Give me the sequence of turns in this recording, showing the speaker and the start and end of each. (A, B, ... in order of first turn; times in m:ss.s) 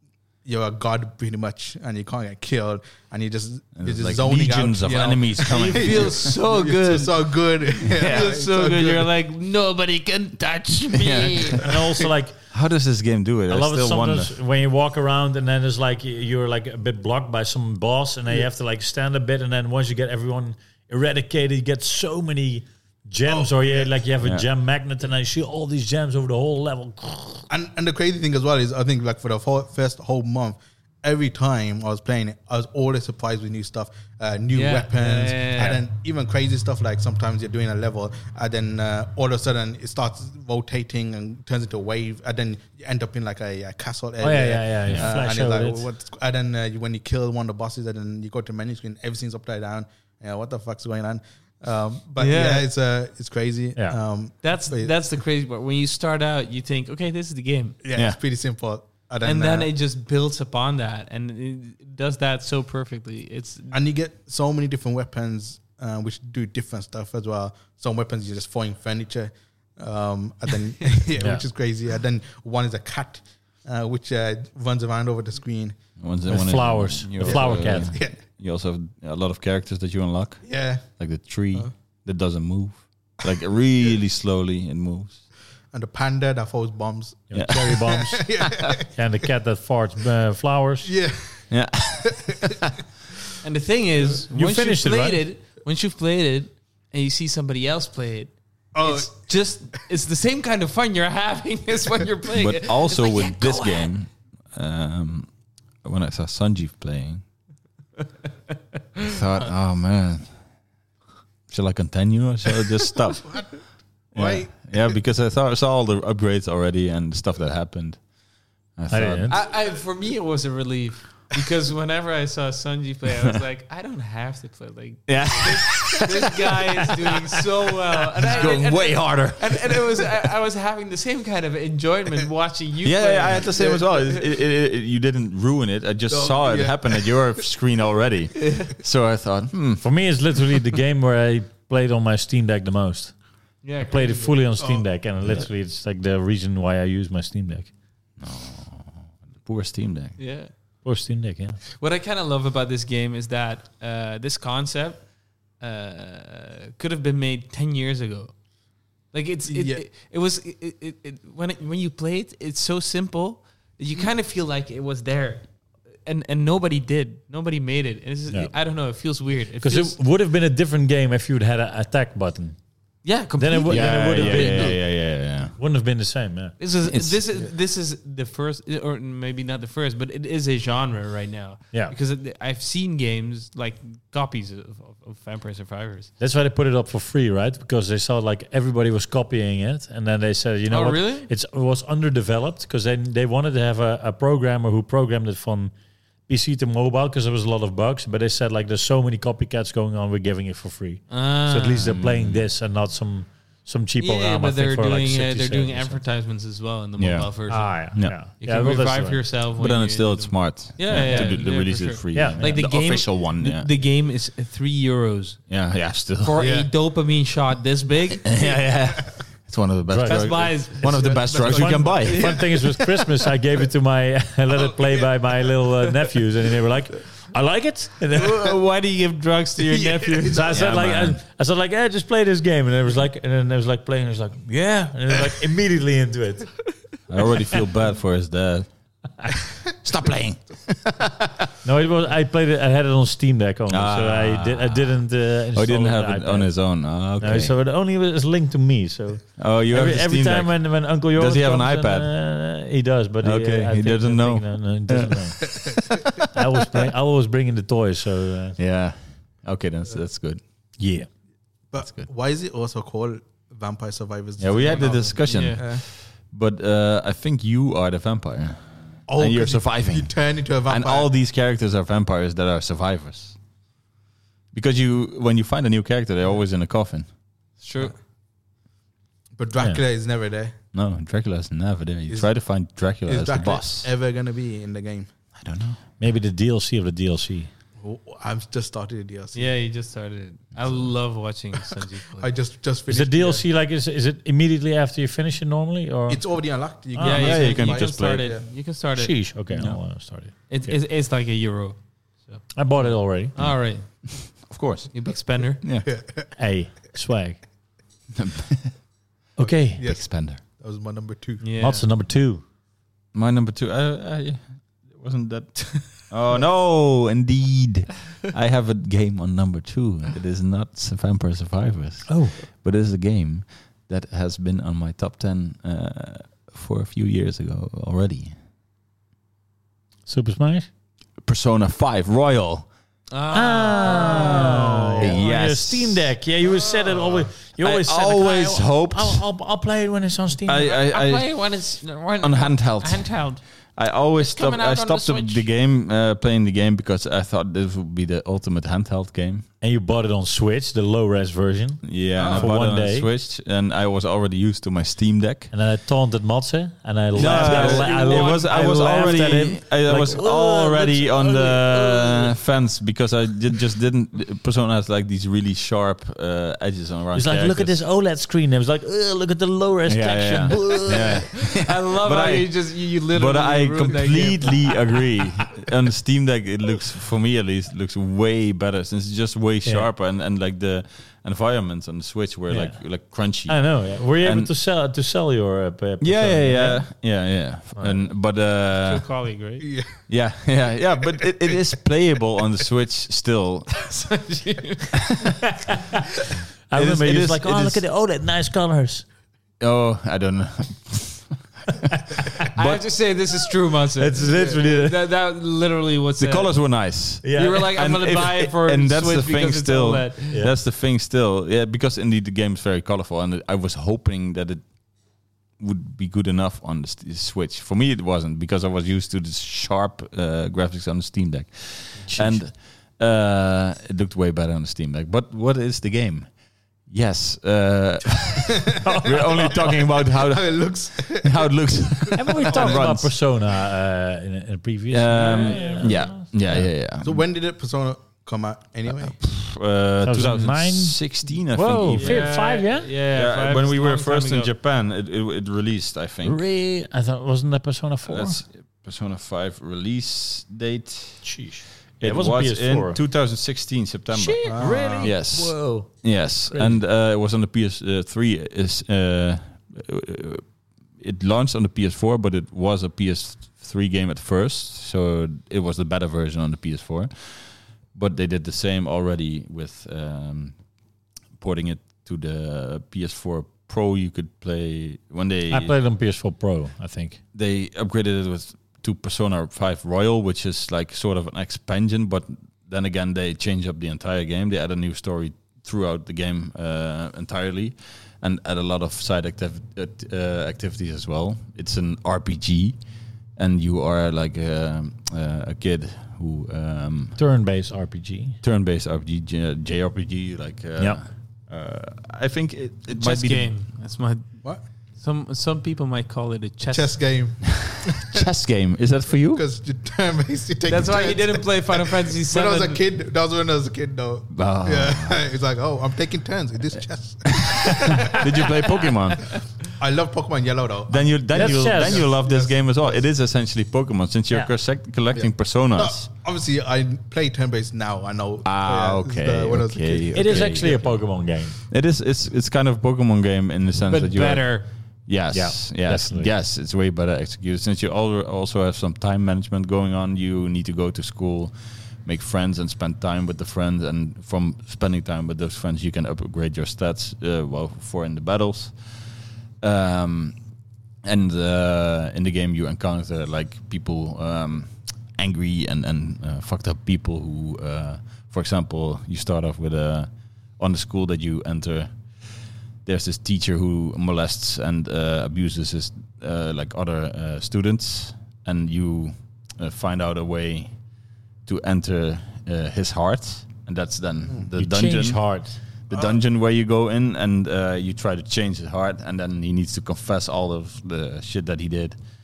0:00.4-0:09.1 A
0:03.8-0:06.3 B
0:05.5-0:11.7 C
0:07.8-0:08.3 B
0:10.9-0:11.6 B
0:11.6-0:12.4 D
0:11.6-0:12.1 A
0:12.5-0:14.3 B
0:13.5-0:27.4 D
0:23.2-0:23.9 A
0:27.5-0:54.9 A
0:34.5-0:35.8 C
0:44.2-0:45.8 D
0:44.9-0:45.1 B
0:52.2-0:52.6 C
0:54.4-0:57.8 C
0:57.8-0:59.7 A
0:59.2-1:03.8 C
1:03.7-1:15.8 A
1:11.2-1:11.4 D
1:16.0-1:25.2 B
1:16.3-1:17.9 D
1:17.2-1:18.2 A
1:20.4-1:20.8 A
1:25.7-1:28.9 A
1:27.3-1:30.9 D
1:30.8-1:31.5 A
1:31.5-1:32.7 B
1:32.0-1:32.6 A
1:33.4-1:43.9 C
1:34.3-1:35.2 D
1:38.7-1:39.2 A
1:42.3-1:45.3 B
1:45.8-1:47.2 B
1:49.0-1:50.4 B
1:51.5-1:53.5 B
1:53.2-1:53.5 A
1:54.1-1:55.0 A
1:54.1-1:58.0 B
1:58.8-1:59.4 B
1:58.9-1:59.4 D
1:59.3-2:14.0 C
2:05.1-2:07.4 B
2:08.1-2:10.0 B
2:12.8-2:19.8 B
2:13.4-2:13.8 A
2:16.1-2:17.3 A
2:19.8-2:23.1 D
2:23.6-2:24.4 C
2:23.8-2:27.7 D
2:24.6-2:24.8 A
2:28.2-2:30.2 B
2:30.2-2:30.5 C
2:30.8-2:31.6 D
2:31.8-2:35.0 C
2:35.6-2:38.3 C
2:39.1-2:45.5 C
2:39.5-2:39.8 A
2:46.0-2:50.0 C
2:49.6-2:52.6 D
2:53.0-2:54.7 C
2:53.4-2:56.5 D
2:53.7-2:55.6 B
2:56.6-3:06.1 C
2:56.8-2:57.2 B
3:06.2-3:15.7 D
3:10.7-3:11.3 C
3:16.3-3:26.0 D
3:21.1-3:22.0 C
3:21.8-3:22.4 B
3:24.0-3:35.4 C
3:27.0-3:28.2 B
3:27.5-3:29.2 D
3:29.6-3:33.7 B
3:30.9-3:31.4 D
3:32.1-3:32.6 D
3:35.5-3:36.4 B
3:36.2-3:38.5 C
3:36.4-3:36.7 A
3:38.2-3:42.3 B
3:39.9-3:40.3 D
3:40.0-3:41.4 C
3:40.8-3:42.8 A
3:41.4-3:48.6 D
3:42.0-3:42.4 C
3:44.5-3:45.1 A
3:48.1-3:50.7 C
3:49.6-3:50.6 A
3:50.2-3:56.7 D
3:50.5-3:51.2 B
3:57.1-3:58.7 B
3:59.8-4:01.5 B
4:01.6-4:15.5 D
4:03.7-4:07.5 B
4:09.4-4:12.1 B
4:13.2-4:16.2 B
4:15.5-4:15.8 A
4:16.2-4:18.6 D
4:18.6-4:20.4 B
4:20.8-4:21.1 D
4:21.7-4:25.8 A
4:21.8-4:22.1 B
4:24.4-4:33.4 B
4:25.3-4:25.6 C
4:29.1-4:31.1 A
4:34.5-4:37.1 B
4:37.6-4:37.9 C
4:39.3-4:40.5 A
4:40.7-4:43.9 B
4:42.1-4:45.1 A
4:45.4-4:45.8 B
4:46.0-4:47.5 D
4:47.8-4:49.5 A
4:49.3-4:52.3 C
4:52.2-4:53.4 A
4:52.9-4:56.2 D
4:56.1-4:58.4 A
4:57.0-4:57.3 D
4:57.0-4:59.3 C
4:57.1-4:58.3 B
4:59.0-5:00.3 D
4:59.5-4:59.8 B
5:00.5-5:04.1 C
5:02.5-5:03.3 D
5:04.4-5:04.9 B
5:04.9-5:05.6 C
5:05.6-5:05.9 B
5:05.8-5:06.3 A
5:06.4-5:07.4 D
5:08.1-5:08.7 B
5:09.4-5:09.8 D
5:09.4-5:11.4 A
5:09.8-5:10.4 B
5:11.4-5:11.8 C
5:11.6-5:12.4 D
5:13.1-5:28.4 B
5:22.1-5:22.4 D
5:30.1-5:30.7 D
5:31.2-5:32.7 B
5:33.1-5:35.1 C
5:33.3-5:40.7 D
5:35.0-5:36.1 B
5:36.6-5:37.1 C
5:37.6-5:39.2 B
5:40.4-5:41.3 B
5:40.6-5:43.4 C
5:42.2-5:43.2 B
5:43.7-5:49.5 B
5:44.2-5:45.5 C
5:49.6-5:53.1 D
5:51.8-5:55.5 B
5:52.2-5:52.5 A
5:55.5-6:02.3 D
5:57.1-5:59.5 C
5:57.1-6:07.8 B
6:07.1-6:11.4 D
6:09.9-6:24.5 B
6:10.9-6:14.8 C
6:22.5-6:26.9 D
6:26.0-6:29.0 B
6:28.8-6:29.7 C
6:29.6-6:30.0 A
6:30.1-6:33.8 B
6:31.2-6:31.6 A
6:33.7-6:35.3 C
6:35.0-6:35.4 B
6:36.7-6:39.0 D
6:36.7-6:37.8 B
6:39.6-6:42.8 B
6:42.5-6:46.5 C
6:44.0-6:45.0 B
6:46.2-6:54.7 B
6:47.2-6:47.6 D
6:47.3-6:50.4 C
6:55.6-7:06.3 B
7:02.0-7:02.4 D
7:06.8-7:13.1 B
7:08.7-7:12.9 A
7:08.8-7:09.6 D
7:12.1-7:16.7 D
7:14.9-7:17.2 B
7:15.2-7:16.0 C
7:17.0-7:19.2 A
7:18.9-7:22.3 B
7:20.0-7:22.9 D
7:21.9-7:24.5 C
7:23.1-7:26.4 B
7:26.2-7:28.4 D
7:28.0-7:31.4 B
7:31.2-7:33.0 D
7:32.0-7:40.4 B
7:34.1-7:36.8 D
7:34.4-7:35.1 A
7:41.0-7:50.6 B
7:51.4-7:55.7 B
7:55.5-7:57.2 D
7:57.3-8:12.8 B
8:13.4-8:17.2 B
8:17.2-8:18.4 D
8:18.4-8:23.5 B
8:22.9-8:24.3 C
8:25.0-8:27.1 C
8:26.7-8:28.2 A
8:28.0-8:29.4 B
8:29.3-8:38.5 A
8:30.7-8:32.8 C
8:34.3-8:35.2 B
8:37.3-8:39.3 B
8:39.8-8:43.0 A
8:40.9-8:46.1 B
8:41.3-8:42.1 D
8:45.1-8:50.8 A
8:48.4-8:54.5 B
8:50.1-8:51.6 D
8:53.9-8:54.7 C
8:55.0-9:10.4 B
8:55.3-8:56.3 D
9:11.0-9:30.7 B
9:31.4-9:35.2 B
9:34.6-9:35.6 D
9:35.9-9:42.0 B
9:35.9-9:36.2 A